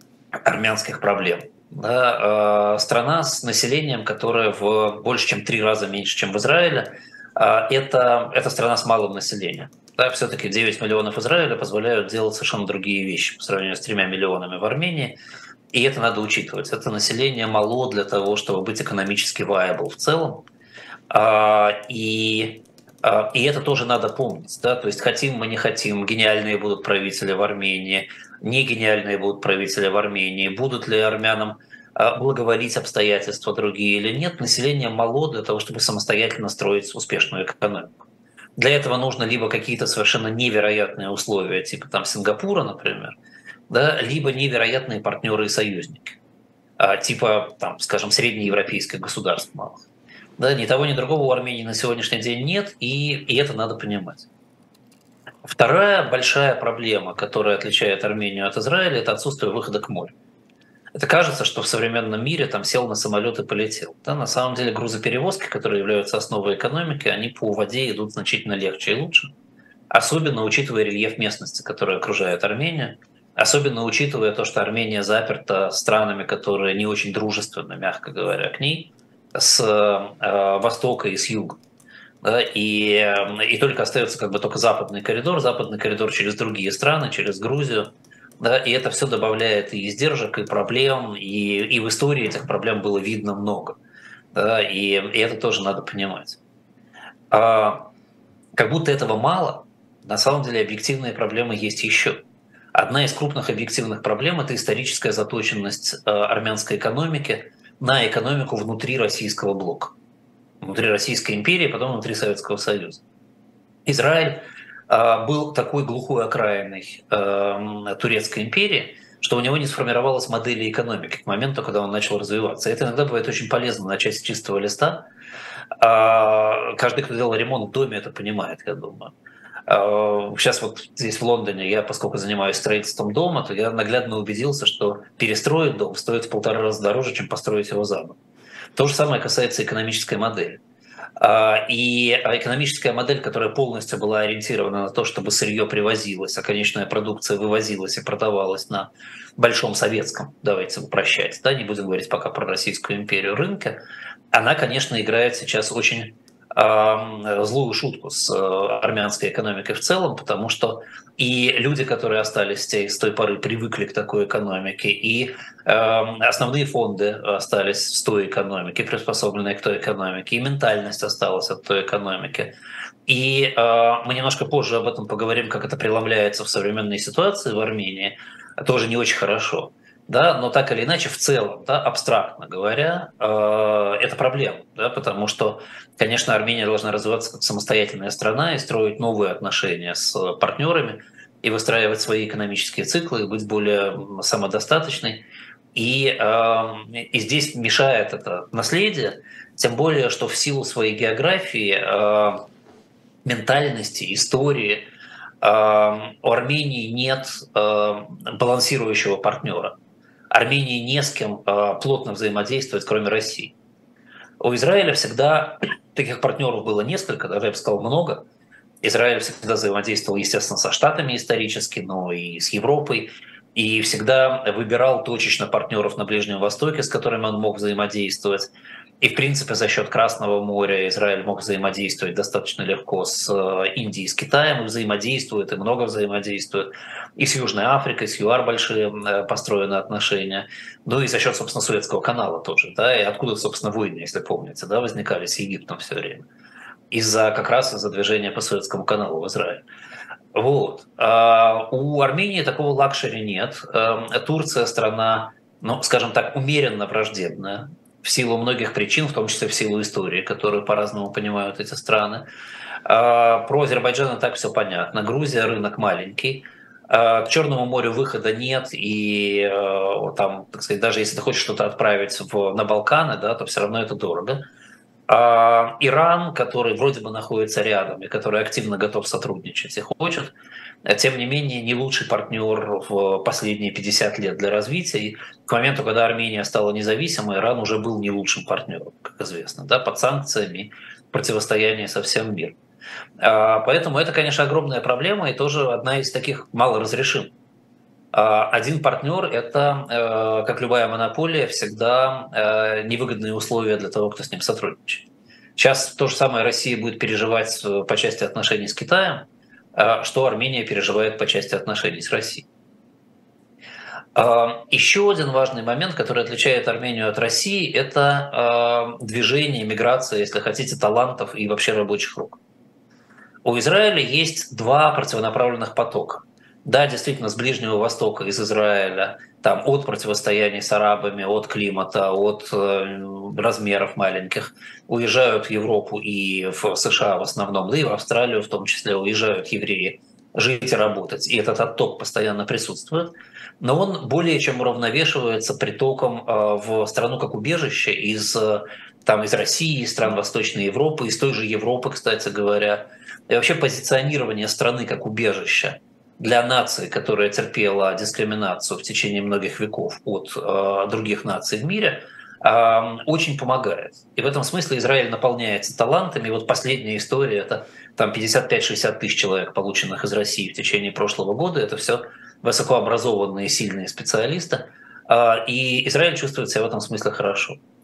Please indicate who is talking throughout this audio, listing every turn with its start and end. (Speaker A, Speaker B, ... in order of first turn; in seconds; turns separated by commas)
Speaker A: 0.4-15.2, Speaker A: 15.7-20.4, Speaker A: 21.1-38.0, Speaker A: 38.5-43.2, Speaker A: 43.7-46.2, Speaker A: 46.8-49.8, Speaker A: 50.4-54.3, Speaker A: 55.4-60.1, Speaker A: 60.9-69.3, Speaker A: 69.9-81.6, Speaker A: 82.2-93.8, Speaker A: 94.3-96.4, Speaker A: 97.3-97.9, Speaker A: 98.6-102.2, Speaker A: 102.7-110.0, Speaker A: 110.6-113.0, Speaker A: 113.8-125.0, Speaker A: 125.8-129.1, Speaker A: 129.7-138.2, Speaker A: 138.7-140.6, Speaker A: 141.2-153.8, Speaker A: 154.3-172.5, Speaker A: 173.1-202.4, Speaker A: 203.2-204.8, Speaker A: 205.4-209.8, Speaker A: 210.3-213.6, Speaker A: 214.4-218.2, Speaker A: 218.8-246.3, Speaker A: 246.9-249.7, Speaker A: 250.3-262.2, Speaker A: 262.9-274.4, Speaker A: 275.1-292.6, Speaker A: 293.2-297.3, Speaker A: 298.1-312.5, Speaker A: 314.1-322.4, Speaker A: 323.4-377.6